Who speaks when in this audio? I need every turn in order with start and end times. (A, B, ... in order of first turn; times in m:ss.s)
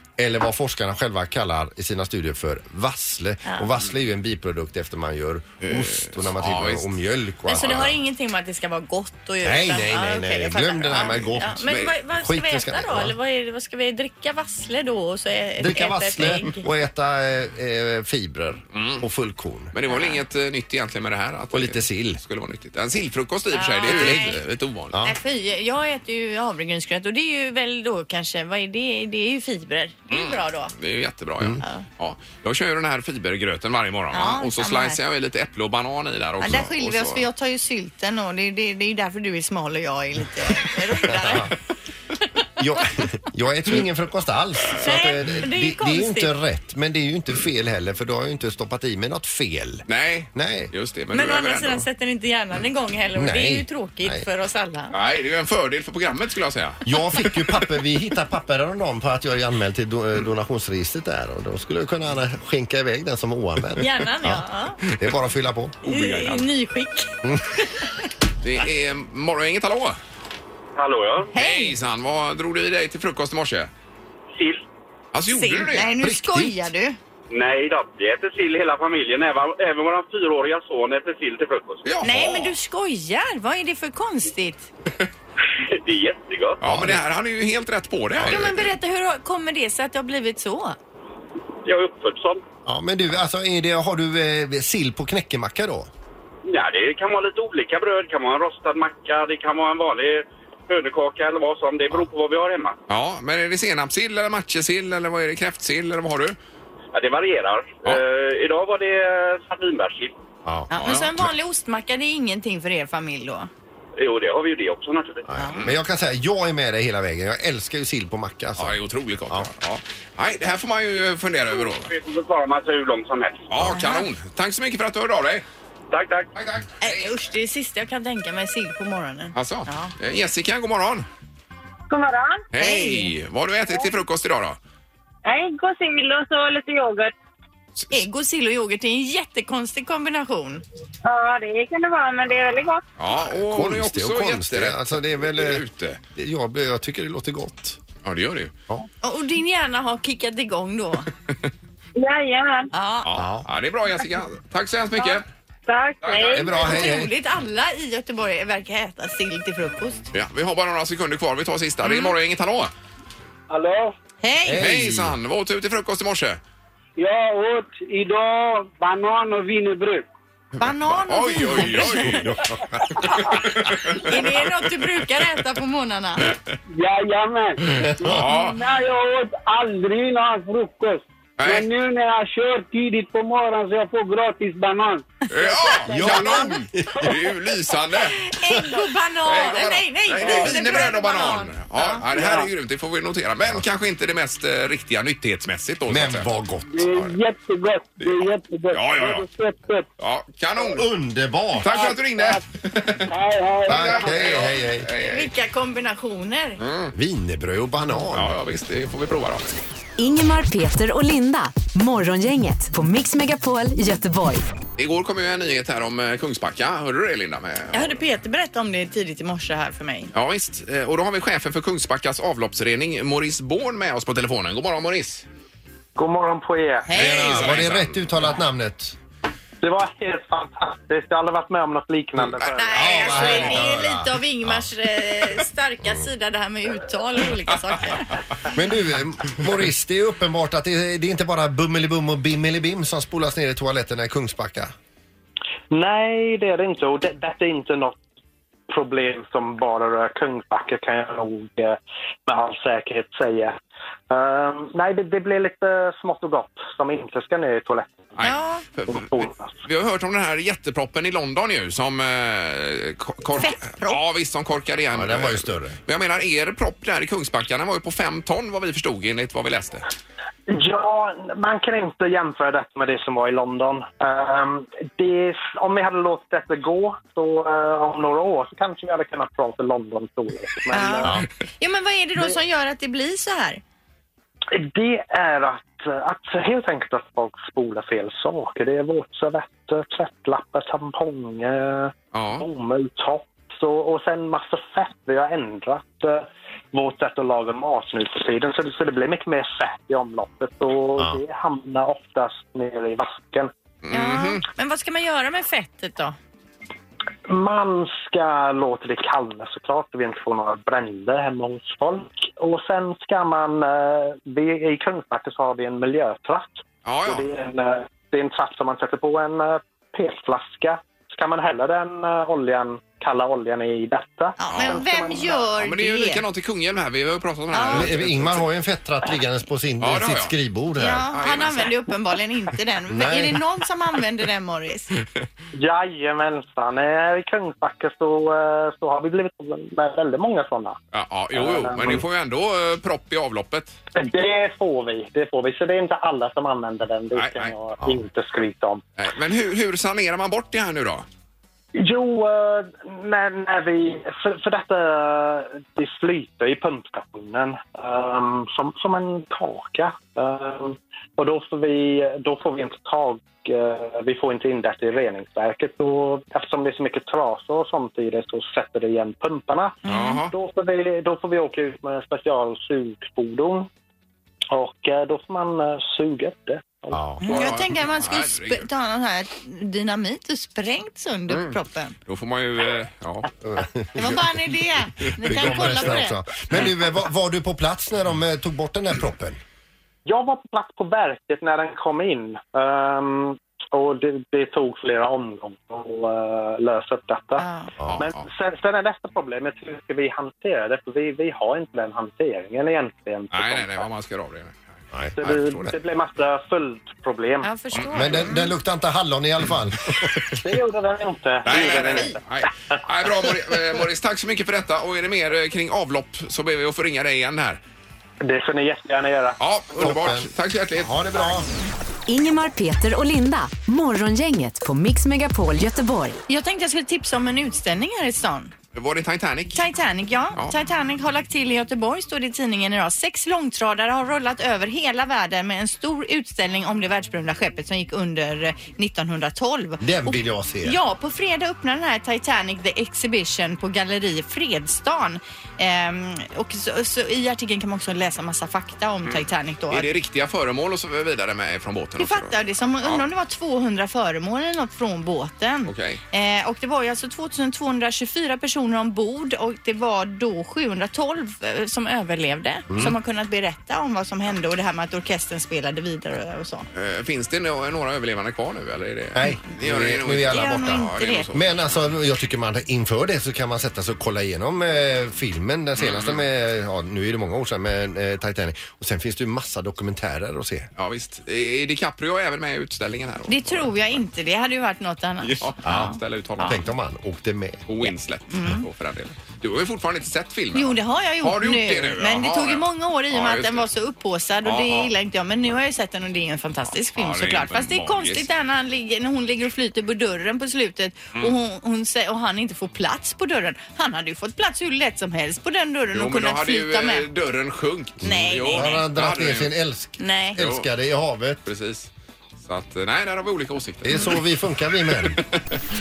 0:00.2-0:08.0 A
0:05.6-0:07.9 B
0:07.5-0:16.6 C
0:09.4-0:11.6 A
0:10.9-0:12.0 B
0:12.2-0:13.2 A
0:15.6-0:19.7 A
0:18.8-0:19.1 B
0:19.7-0:25.0 B
0:19.9-0:20.2 C
0:21.5-0:22.2 A
0:23.5-0:24.4 C
0:23.9-0:24.2 A
0:24.9-0:25.2 A
0:25.0-0:30.7 C
0:30.1-0:37.2 B
0:34.1-0:35.0 C
0:36.4-0:41.5 C
0:41.2-0:41.5 A
0:42.6-0:50.7 A
0:44.8-0:46.4 C
0:49.9-0:51.8 B
0:51.1-0:54.9 C
0:53.2-0:54.3 A
0:54.9-0:57.3 B
0:56.9-1:05.8 A
1:03.8-1:04.8 C
1:05.8-1:06.5 B
1:05.8-1:08.0 C
1:08.4-1:10.0 B
1:10.8-1:11.4 D
1:11.3-1:11.8 C
1:11.4-1:13.7 B
1:14.4-1:14.6 D
1:15.1-1:15.9 B
1:15.3-1:17.0 C
1:16.0-1:16.7 A
1:17.3-1:21.9 D
1:21.8-1:22.6 B
1:22.0-1:24.7 C
1:25.7-1:26.6 D
1:26.6-1:28.6 B
1:26.6-1:27.0 A
1:28.1-1:28.6 A
1:28.3-1:30.8 C
1:31.6-1:32.4 D
1:32.7-1:35.9 A
1:36.4-1:42.8 D
1:42.9-1:46.4 B
1:46.9-1:50.1 D
1:50.4-1:50.7 A
1:50.7-1:53.5 C
1:50.8-1:51.3 B
1:54.0-1:55.3 D
1:55.3-1:58.8 A
1:55.4-1:55.6 C
1:55.4-1:55.8 B
1:58.6-2:01.9 B
2:01.8-2:03.5 D
2:03.5-2:05.5 B
2:05.9-2:06.3 D
2:06.4-2:07.1 B
2:06.8-2:09.9 C
2:09.4-2:11.1 B
2:11.9-2:12.4 E
2:12.5-2:14.6 B
2:12.6-2:13.1 C
2:15.2-2:17.1 E
2:17.8-2:18.0 B
2:17.9-2:20.6 C
2:21.0-2:22.8 E
2:23.0-2:26.0 B
2:23.2-2:25.6 A
2:26.2-2:27.8 A
2:28.0-2:28.5 B
2:29.0-2:31.1 C
2:32.0-2:32.7 E
2:32.7-2:33.1 C
2:33.0-2:35.3 B
2:33.2-2:33.5 A
2:35.7-2:36.5 E
2:36.0-2:36.8 B
2:36.3-2:37.1 A
2:36.5-2:40.1 C
2:40.1-2:42.7 B
2:43.5-2:43.9 F
2:44.2-2:44.6 C
2:44.5-2:45.2 A
2:44.6-2:46.4 B
2:47.0-2:50.0 F
2:50.6-2:52.4 C
2:50.9-2:52.3 B
2:51.8-2:52.8 A
2:53.0-2:54.7 B
2:54.0-2:56.2 C
2:56.7-3:05.1 F
2:58.0-2:58.6 B
3:01.4-3:01.7 B
3:05.3-3:08.2 B
3:05.8-3:06.6 C
3:05.9-3:07.1 A
3:08.2-3:12.0 C
3:09.3-3:17.2 B
3:10.2-3:10.9 F
3:12.2-3:12.5 F
3:15.9-3:16.7 A
3:16.7-3:19.9 F
3:18.7-3:19.2 B
3:20.0-3:20.9 B
3:20.6-3:21.9 A
3:21.6-3:23.1 B
3:21.8-3:22.4 F
3:23.1-3:24.4 F
3:23.7-3:24.9 A
3:23.7-3:25.3 B
3:25.0-3:26.6 C
3:26.6-3:27.0 B
3:27.0-3:28.4 A
3:28.1-3:29.5 B
3:30.0-3:34.5 G
3:34.8-3:38.0 B
3:37.7-3:40.1 C
3:40.1-3:45.2 B
3:46.0-3:46.9 H
3:46.9-3:47.5 C
3:46.9-3:48.3 B
3:46.9-3:49.0 A
3:49.6-3:53.4 H
3:52.2-3:53.7 B
3:52.6-3:58.2 C
3:52.8-3:54.7 A
3:58.5-4:04.7 A
4:05.7-4:08.0 H
4:08.7-4:13.6 H
4:14.1-4:18.1 H
4:18.2-4:29.9 B
4:18.2-4:18.6 C
4:18.9-4:19.5 H
4:23.4-4:24.0 C
4:24.9-4:25.8 A
4:30.5-4:41.2 H
4:40.7-4:43.6 C
4:44.5-5:03.5 H
4:52.1-4:52.5 B
5:03.8-5:04.4 B
5:03.9-5:06.2 C
5:07.3-5:25.4 H
5:16.8-5:17.3 B
5:24.4-5:26.2 C
5:24.5-5:24.8 B
5:25.6-5:28.5 B
5:27.5-5:27.9 C
5:27.7-5:31.0 A
5:29.8-5:30.4 B
5:30.8-5:34.9 C
5:31.1-5:31.8 B
5:32.9-5:33.4 A
5:35.5-5:40.8 H
5:40.9-5:43.8 B
5:41.3-5:42.0 H
5:43.9-5:48.8 H
5:47.2-5:48.0 B
5:49.0-5:51.1 B
5:51.8-6:09.8 H
6:09.8-6:10.2 C
6:09.9-6:10.3 B
6:10.3-6:13.7 H
6:14.5-6:17.0 H
6:16.9-6:17.2 A
6:17.2-6:22.0 C
6:17.2-6:18.7 B
6:21.3-6:21.6 B
6:22.1-6:23.3 B
6:23.4-6:24.2 A
6:24.0-6:24.2 B
6:24.0-6:26.2 C
6:25.0-6:26.0 B
6:25.1-6:29.4 A
6:30.0-6:43.9 H
6:37.4-6:37.7 C
6:37.9-6:38.2 B
6:43.3-6:45.7 B
6:44.9-6:45.7 A
6:45.2-6:47.5 H
6:47.4-6:48.4 C
6:47.7-6:48.5 B
6:47.9-6:50.1 A
6:50.4-6:52.8 H
6:51.4-6:57.6 B
6:51.5-6:52.0 C
6:58.2-6:59.9 H
6:59.4-7:01.0 B
6:59.8-7:01.5 A
7:02.1-7:06.2 G
7:06.3-7:08.5 C
7:08.7-7:09.7 B
7:09.6-7:29.9 C
7:19.8-7:20.8 A
7:29.1-7:33.0 B
7:32.0-7:46.7 C
7:35.7-7:36.0 B
7:42.7-7:43.0 A
7:46.7-7:51.9 B
7:49.1-8:00.7 A
7:50.3-7:51.3 C
7:55.8-7:56.2 B
8:00.8-8:04.0 B
8:03.3-8:06.6 C
8:05.2-8:06.6 B
8:05.6-8:07.6 A
8:07.7-8:13.6 B
8:07.8-8:08.6 C
8:10.5-8:27.1 C
8:14.4-8:14.9 B
8:16.9-8:18.3 B
8:25.9-8:29.6 B
8:28.0-8:28.8 C
8:28.0-8:31.4 A
8:30.0-8:30.4 C
8:30.4-8:30.7 B
8:31.4-8:34.3 B
8:33.8-8:35.2 A
8:35.0-8:35.5 B